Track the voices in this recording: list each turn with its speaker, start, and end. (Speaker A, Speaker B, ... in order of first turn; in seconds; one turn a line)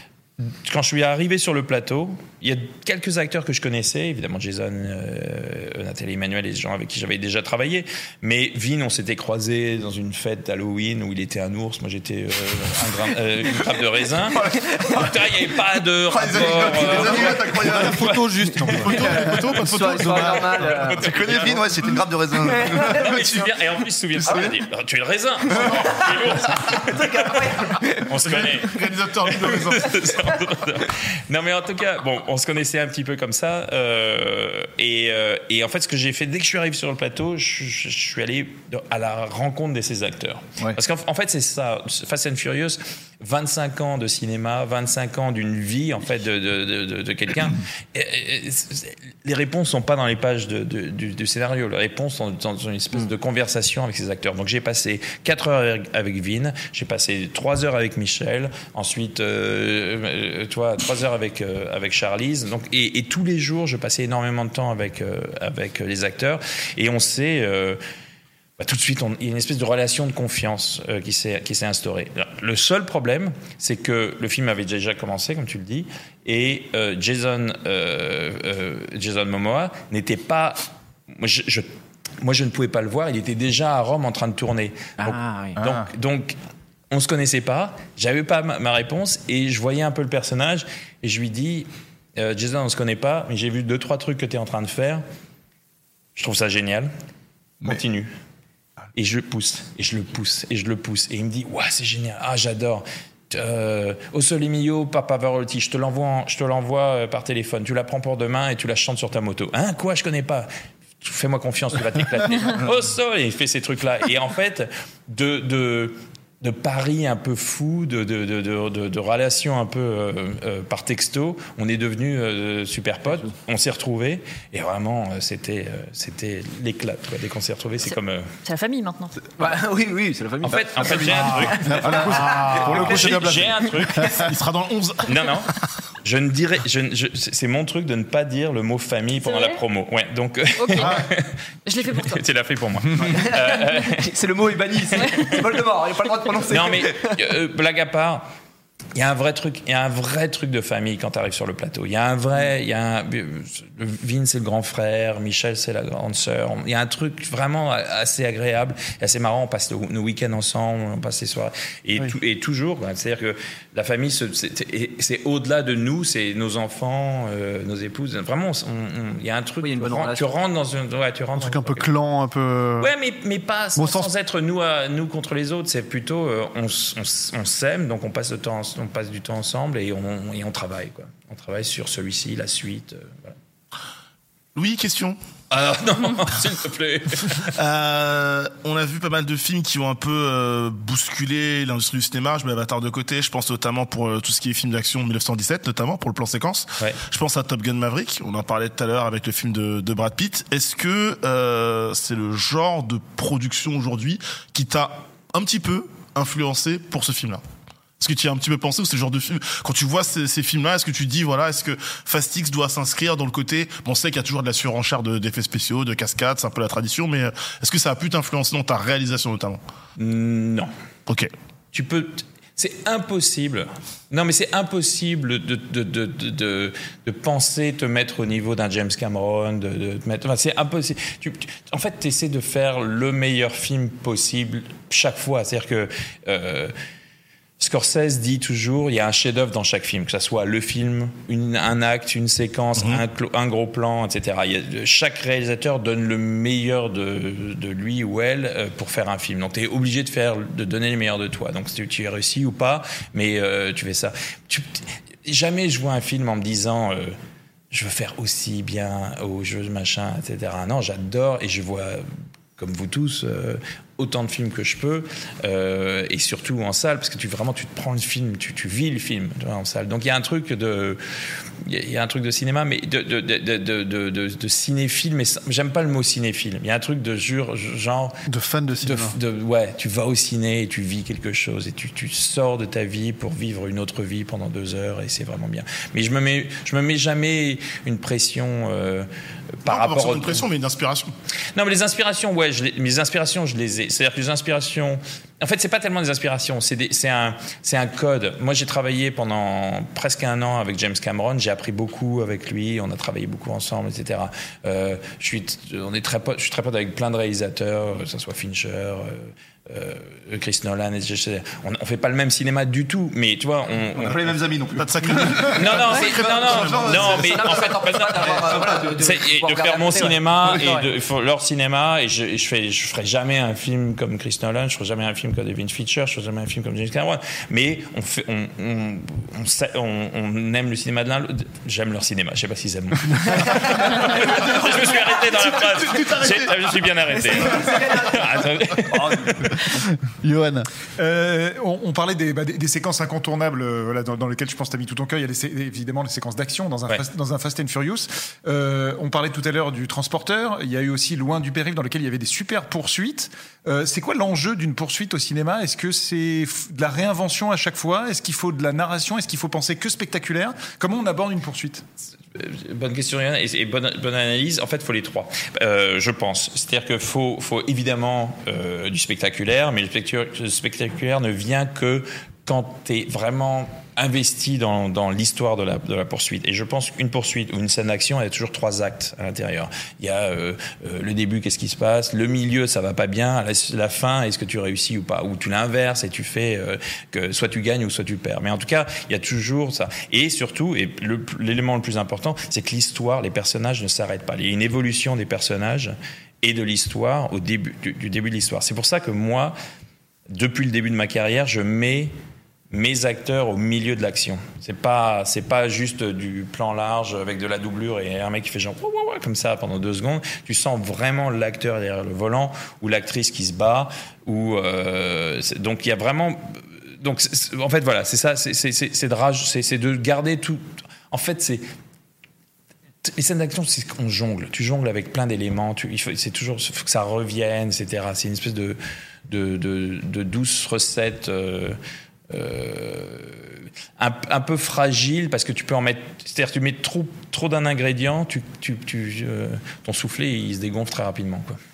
Speaker A: 0.4-18.2
Speaker B: 16.1-18.2
Speaker C: 17.0-20.1
Speaker D: 18.6-20.7
Speaker E: 18.9-21.6
Speaker A: 20.7-21.6
Speaker B: 21.0-23.6
Speaker E: 22.4-23.2
Speaker A: 22.6-27.4
Speaker B: 24.2-24.6
Speaker B: 25.5-25.9
Speaker E: 25.6-26.1
Speaker E: 26.7-28.1
Speaker A: 28.1-67.8
Speaker D: 28.3-29.9
Speaker A: 68.6-81.7
Speaker A: 82.2-86.4
Speaker E: 85.0-85.8
Speaker A: 86.9-95.0
Speaker A: 96.2-96.9
Speaker A: 97.6-98.1
Speaker A: 99.0-110.5
Speaker A: 111.0-128.3
Speaker F: 128.4-129.1
Speaker E: 129.4-133.3
Speaker A: 130.4-134.2
Speaker D: 131.4-133.1
Speaker B: 131.8-133.5
Speaker D: 134.1-135.6
Speaker A: 135.1-135.5
Speaker A: 136.0-141.3
Speaker F: 139.2-139.6
Speaker F: 140.6-141.0
Speaker F: 141.7-142.2
Speaker A: 141.9-144.1
Speaker E: 143.1-147.2
Speaker A: 144.9-145.3
Speaker A: 146.5-148.3
Speaker A: 148.9-171.9
Speaker E: 169.6-170.3
Speaker C: 171.4-172.9
Speaker A: 172.8-183.4
Speaker C: 173.8-174.1
Speaker D: 184.6-185.2
Speaker A: 185.5-187.5
Speaker D: 187.5-207.4
Speaker D: 208.0-219.6
Speaker A: 220.0-220.7
Speaker A: 221.7-236.7
Speaker A: 237.6-257.2
Speaker D: 242.8-243.0
Speaker A: 257.7-262.1
Speaker A: 262.6-271.0
Speaker A: 271.6-278.2
Speaker C: 278.3-279.2
Speaker A: 278.8-289.1
Speaker A: 289.6-290.5
Speaker D: 289.7-291.1
Speaker A: 291.6-314.4
Speaker B: 313.9-318.9
Speaker D: 314.8-317.2
Speaker A: 315.2-339.5
Speaker E: 317.0-320.9
Speaker B: 335.4-336.5
Speaker E: 337.3-338.2
Speaker B: 337.5-338.2
Speaker B: 338.9-339.4
Speaker C: 340.2-340.7
Speaker G: 341.0-361.8
Speaker A: 362.4-399.6
Speaker A: 400.3-402.1
Speaker A: 402.7-421.6
Speaker A: 423.1-431.8
Speaker A: 432.3-441.6